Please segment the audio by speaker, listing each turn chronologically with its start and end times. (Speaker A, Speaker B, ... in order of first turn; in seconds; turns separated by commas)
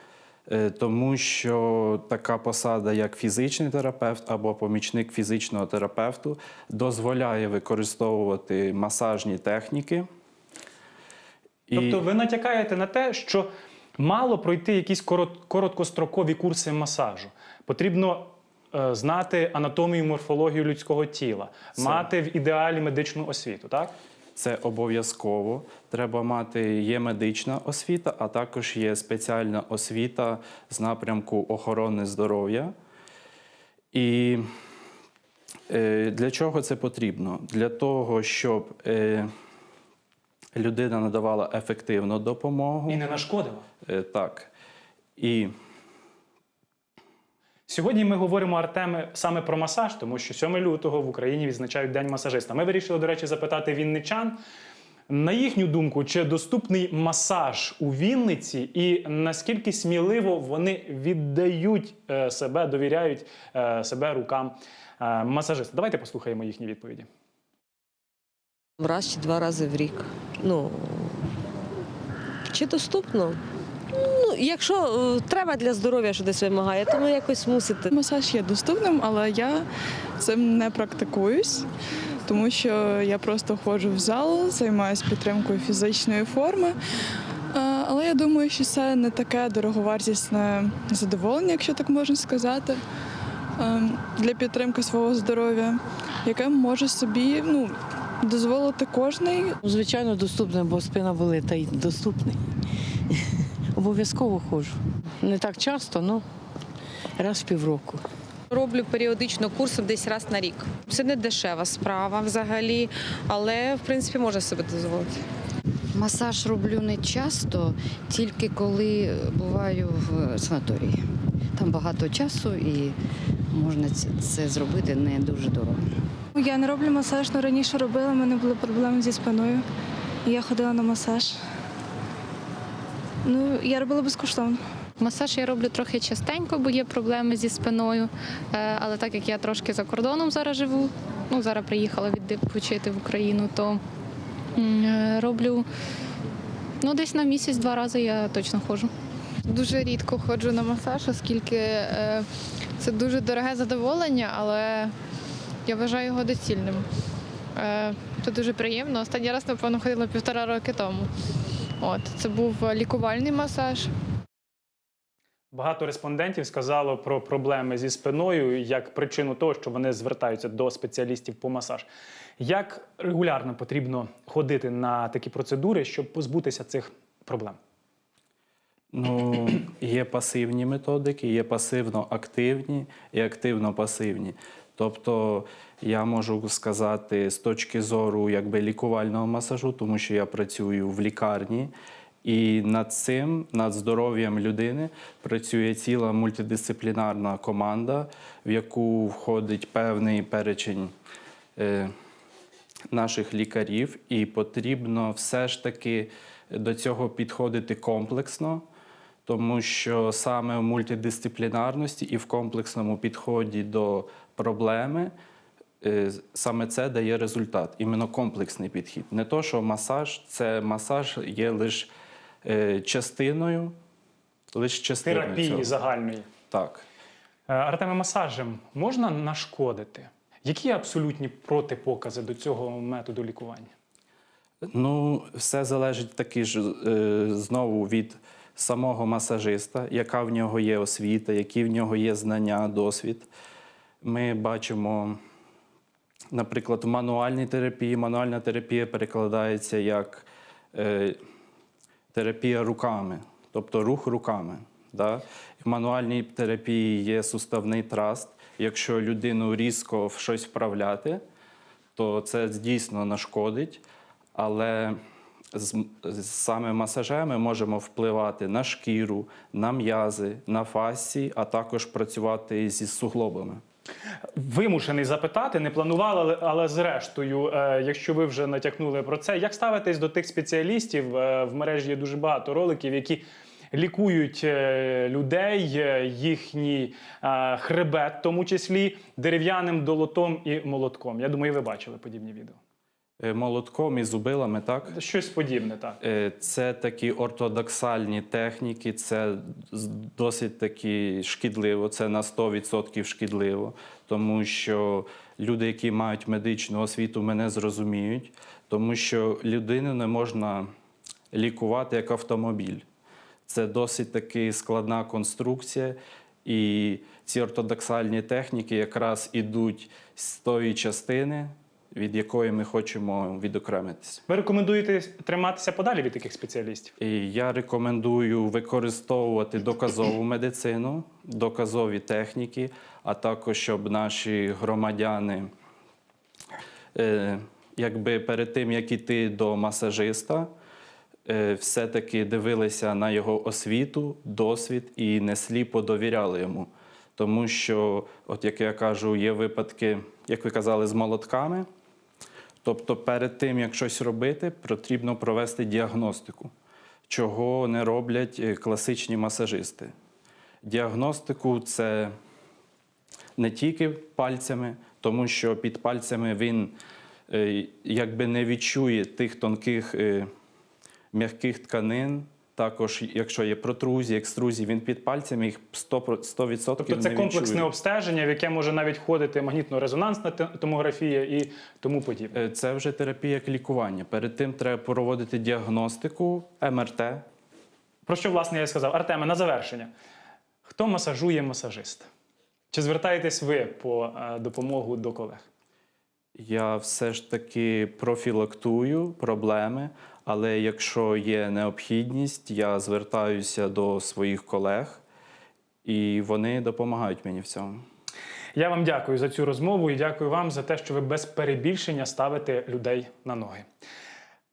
Speaker A: 0.5-10.1, Speaker A: 11.7-12.0, Speaker B: 11.7-23.9, Speaker A: 21.8-22.1, Speaker A: 24.4-32.7, Speaker A: 33.9-34.4, Speaker A: 35.7-39.3, Speaker A: 40.5-43.0, Speaker B: 42.9-43.6, Speaker A: 43.9-44.5, Speaker A: 45.2-45.5, Speaker B: 47.7-54.4, Speaker B: 55.1-67.1, Speaker C: 68.8-71.2, Speaker C: 72.5-73.4, Speaker C: 73.9-77.9, Speaker D: 77.9-79.6, Speaker D: 80.2-81.7, Speaker D: 82.2-86.8, Speaker D: 87.5-92.8, Speaker D: 93.6-99.5, Speaker E: 99.6-102.4, Speaker E: 103.7-106.2, Speaker E: 107.2-108.0, Speaker F: 108.5-115.2, Speaker G: 115.9-121.0, Speaker G: 121.5-123.0, Speaker G: 123.5-125.8, Speaker H: 126.3-129.6, Speaker H: 130.2-131.3, Speaker H: 133.2-134.6, Speaker I: 135.0-143.8, Speaker I: 144.6-145.7, Speaker I: 146.8-148.9, Speaker J: 149.5-152.2, Speaker J: 152.8-154.9, Speaker J: 155.7-156.8, Speaker J: 157.6-161.1, Speaker J: 161.8-163.9, Speaker B: 165.5-171.9, Speaker B: 172.4-177.6, Speaker A: 178.9-191.7, Speaker A: 192.2-200.9, Speaker A: 201.6-201.9, Speaker A: 202.9-208.6, Speaker A: 209.2-215.1, Speaker A: 215.8-221.9, Speaker A: 222.4-223.7, Speaker A: 224.5-225.7, Speaker B: 225.0-226.2, Speaker A: 226.5-226.8, Speaker B: 227.5-233.7, Speaker A: 234.7-243.3, Speaker A: 244.0-245.2, Speaker A: 246.3-251.2, Speaker A: 252.1-261.2, Speaker A: 261.9-263.8, Speaker A: 264.3-265.0, Speaker A: 265.5-273.6, Speaker B: 274.3-292.6, Speaker A: 293.2-294.9, Speaker B: 294.9-296.0, Speaker A: 296.0-310.7, Speaker A: 311.3-312.8, Speaker A: 313.5-324.2, Speaker B: 324.3-326.9, Speaker A: 327.0-335.5, Speaker A: 336.9-340.5, Speaker A: 341.2-351.6, Speaker A: 352.6-356.5, Speaker A: 357.1-359.9, Speaker A: 360.6-362.1, Speaker A: 363.4-366.7, Speaker A: 367.3-370.3, Speaker A: 371.1-377.7, Speaker B: 376.8-382.4, Speaker A: 382.3-387.2, Speaker B: 388.1-389.9, Speaker B: 390.6-392.1, Speaker B: 392.7-395.5, Speaker A: 396.4-405.0, Speaker A: 405.8-407.8, Speaker B: 408.6-413.6